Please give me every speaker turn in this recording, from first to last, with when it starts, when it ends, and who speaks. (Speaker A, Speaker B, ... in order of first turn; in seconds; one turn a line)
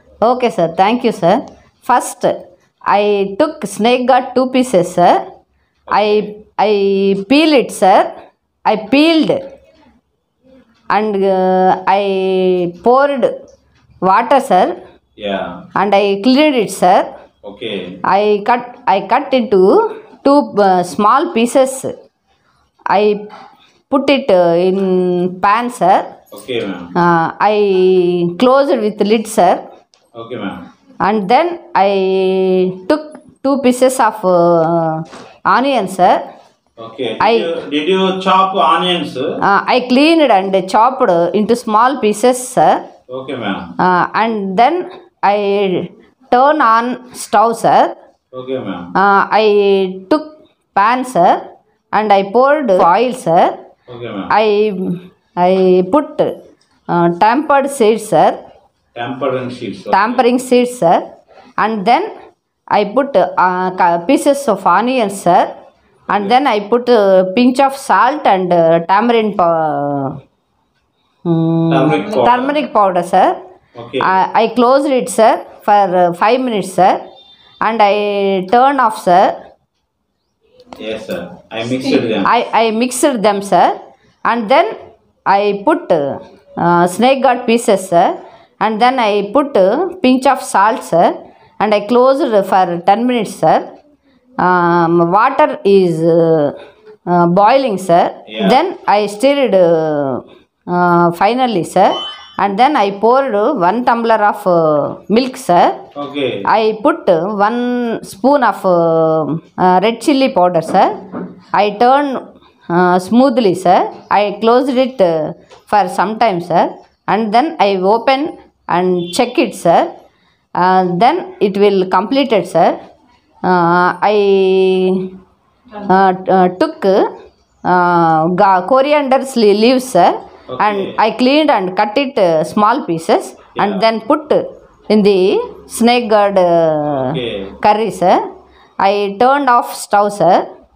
Speaker A: 0.2-2.3
Speaker A: 2.9-5.2
Speaker B: 5.9-6.3
Speaker A: 5.9-8.1
Speaker A: 8.7-9.4
Speaker A: 10.9-13.3
Speaker A: 14.0-14.7
Speaker B: 15.2-15.6
Speaker A: 15.8-17.1
Speaker B: 17.4-17.9
Speaker A: 18.1-21.9
Speaker A: 22.9-23.2
Speaker A: 23.9-26.1
Speaker B: 26.3-26.9
Speaker A: 26.9-29.6
Speaker B: 30.1-30.6
Speaker A: 31.0-36.2
Speaker B: 36.8-39.3
Speaker A: 37.2-37.5
Speaker A: 39.4-42.8
Speaker B: 43.1-43.7
Speaker A: 43.8-47.9
Speaker B: 48.3-48.9
Speaker A: 48.9-51.4
Speaker A: 51.9-53.5
Speaker B: 53.9-54.3
Speaker A: 54.3-56.3
Speaker A: 56.9-58.4
Speaker B: 58.9-60.2
Speaker A: 59.9-61.0
Speaker A: 61.6-62.1
Speaker A: 62.7-65.5
Speaker A: 66.1-70.2
Speaker A: 71.2-73.3
Speaker B: 71.7-72.6
Speaker B: 73.7-74.1
Speaker A: 74.0-77.0
Speaker A: 77.6-79.3
Speaker B: 80.8-82.3
Speaker A: 82.2-83.7
Speaker A: 84.3-84.7
Speaker A: 85.3-86.0
Speaker A: 86.6-93.7
Speaker A: 94.4-96.5
Speaker A: 97.1-105.8
Speaker B: 98.3-98.6
Speaker B: 105.9-106.5
Speaker A: 106.5-110.9
Speaker A: 111.5-119.9
Speaker A: 120.6-122.7
Speaker A: 123.4-125.1
Speaker A: 125.8-127.0
Speaker A: 127.6-138.2
Speaker B: 130.5-131.0
Speaker B: 133.6-133.8
Speaker B: 136.8-137.5
Speaker A: 138.8-140.4